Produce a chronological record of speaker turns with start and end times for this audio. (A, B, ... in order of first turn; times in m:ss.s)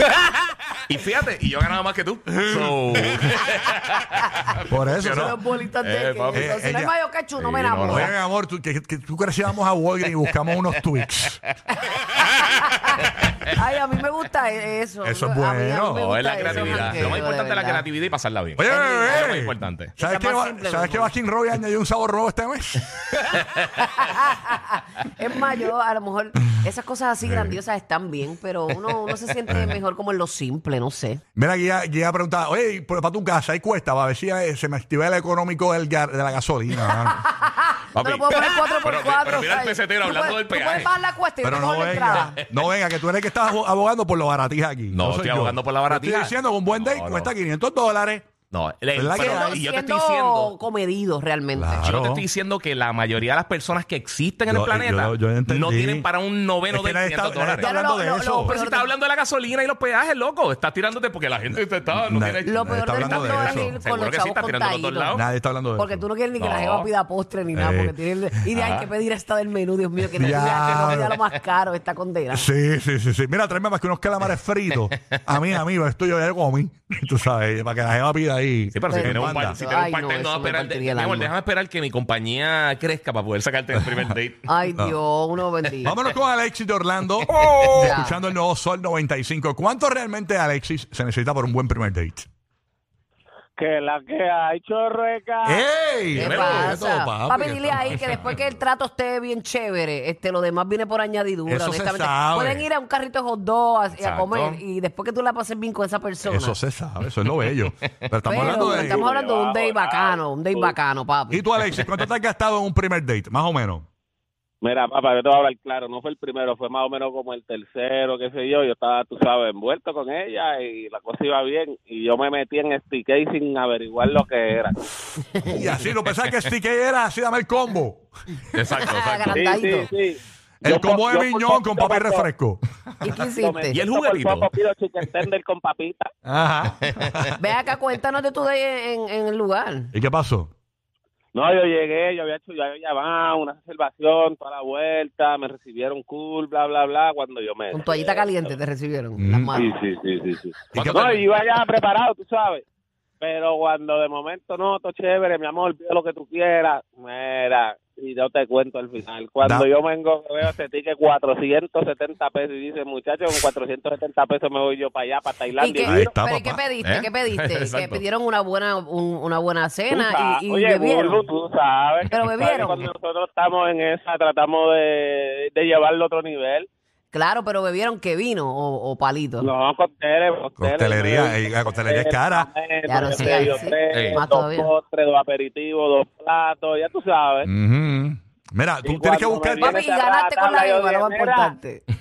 0:00.9-0:06.6 A
0:02.3-0:03.3 B
0:04.7-0:05.4 B
0:05.1-0:08.1 C
0:06.3-0:06.9 B
0:07.4-0:08.1 A
0:07.8-0:11.4 B
0:12.2-0:12.9 C
0:13.2-0:13.5 A
0:13.5-0:17.8 C
0:15.0-0:17.2 B
0:15.9-0:19.9 A
0:18.6-0:23.0 B
0:18.7-0:19.3 C
0:20.0-0:21.1 C
0:23.3-0:23.6 A
0:23.8-0:31.2 C
0:27.2-0:27.6 B
0:29.5-0:29.8 B
0:31.4-0:37.3 B
0:36.9-0:42.4 C
0:38.0-0:40.9 A
0:41.4-0:48.3 B
0:44.9-0:47.3 A
0:48.5-0:50.5 A
0:48.9-0:49.6 B
0:49.2-0:51.8 C
0:51.6-0:52.2 B
0:51.8-0:57.7 A
0:54.5-0:56.1 B
0:56.7-0:58.6 B
0:57.6-0:58.9 C
0:58.4-1:05.2 A
1:01.5-1:03.8 B
1:02.4-1:05.2 C
1:05.1-1:06.1 B
1:05.7-1:12.5 C
1:06.4-1:06.9 A
1:07.5-1:08.0 B
1:08.5-1:08.9 A
1:10.2-1:11.2 B
1:12.3-1:19.6 B
1:18.7-1:24.4 A
1:18.9-1:21.3 C
1:24.5-1:25.9 C
1:25.8-1:32.3 B
1:27.7-1:28.2 C
1:33.6-1:35.7 D
1:35.4-1:38.4 B
1:36.1-1:46.6 C
1:36.2-1:36.8 A
1:41.5-1:42.7 B
1:44.0-1:44.6 A
1:46.2-1:49.0 B
1:48.2-1:51.4 C
1:48.3-1:50.8 D
1:51.3-1:53.9 B
1:54.6-2:04.8 D
2:05.3-2:05.6 C
2:05.5-2:08.1 B
2:08.5-2:09.4 A
2:08.8-2:09.9 C
2:09.3-2:12.3 D
2:10.6-2:12.6 B
2:13.0-2:13.8 C
2:13.2-2:16.1 D
2:13.7-2:14.5 A
2:16.2-2:17.4 B
2:17.4-2:19.9 C
2:19.9-2:20.5 B
2:21.3-2:28.3 D
2:27.7-2:29.8 C
2:29.2-2:29.6 B
2:29.6-2:32.6 D
2:30.7-2:31.2 B
2:30.7-2:31.2 A
2:33.2-2:46.1 D
2:39.4-2:39.7 B
2:45.6-2:51.2 C
2:45.8-2:46.6 B
2:46.8-2:48.0 A
2:49.9-2:56.7 D
2:52.1-2:52.8 C
2:57.1-2:59.5 C
2:59.4-3:07.5 D
3:00.6-3:02.5 B
3:02.8-3:04.7 C
3:03.2-3:04.2 A
3:07.4-3:09.8 B
3:08.8-3:11.6 D
3:09.6-3:11.8 C